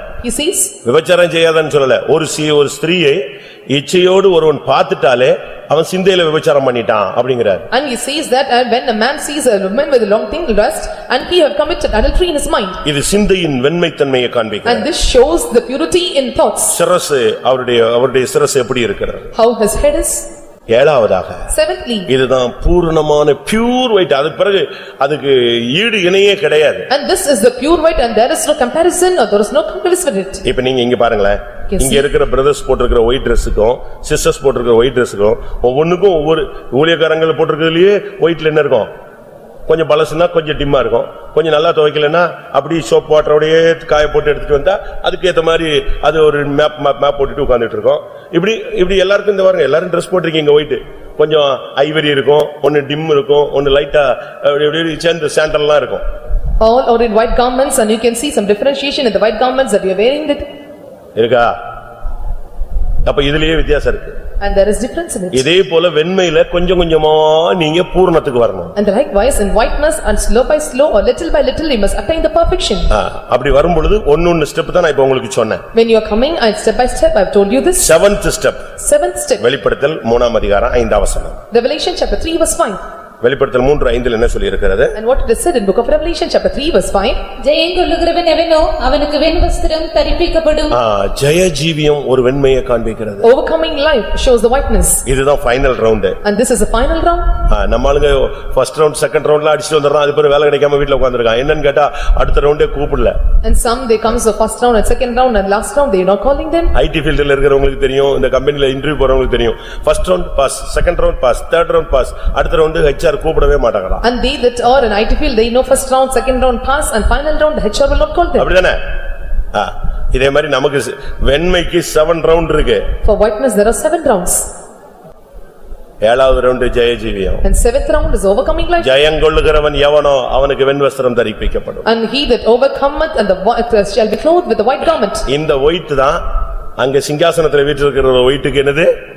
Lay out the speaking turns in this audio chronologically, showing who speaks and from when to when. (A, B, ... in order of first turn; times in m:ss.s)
0:00.2-0:00.8 A
0:00.8-0:07.6 B
0:07.7-0:12.8 A
0:12.8-0:14.9 B
0:14.6-0:16.8 A
0:16.7-0:19.3 B
0:19.3-0:20.3 A
0:20.7-0:21.5 B
0:21.5-0:22.1 A
0:22.1-0:26.9 B
0:26.9-0:30.4 A
0:30.4-0:38.9 B
0:31.7-0:32.0 A
0:39.7-0:56.0 B
0:56.6-1:00.5 A
1:01.2-1:01.5 B
1:03.0-1:04.2 B
1:04.4-1:05.5 A
1:05.3-1:08.7 B
1:08.8-1:12.9 A
1:12.9-1:15.6 B
1:15.7-1:18.0 A
1:17.8-1:18.6 B
1:18.8-1:19.4 A
1:19.4-1:21.4 B
1:21.5-1:22.8 A
1:23.2-1:24.9 B
1:24.9-1:27.2 A
1:27.4-1:30.8 C
1:30.7-1:33.3 B
1:33.2-1:35.0 A
1:35.0-1:36.2 B
1:36.2-1:37.4 A
1:37.5-1:43.2 B
1:43.4-1:46.7 A
1:46.7-1:54.0 B
1:54.0-1:58.5 A
1:58.4-1:58.8 B
1:59.5-2:02.9 B
2:03.0-2:04.5 A
2:06.0-2:07.4 B
2:07.4-2:08.9 A
2:08.8-2:11.8 B
2:11.8-2:15.2 A
2:15.3-2:16.2 B
2:16.8-2:18.9 B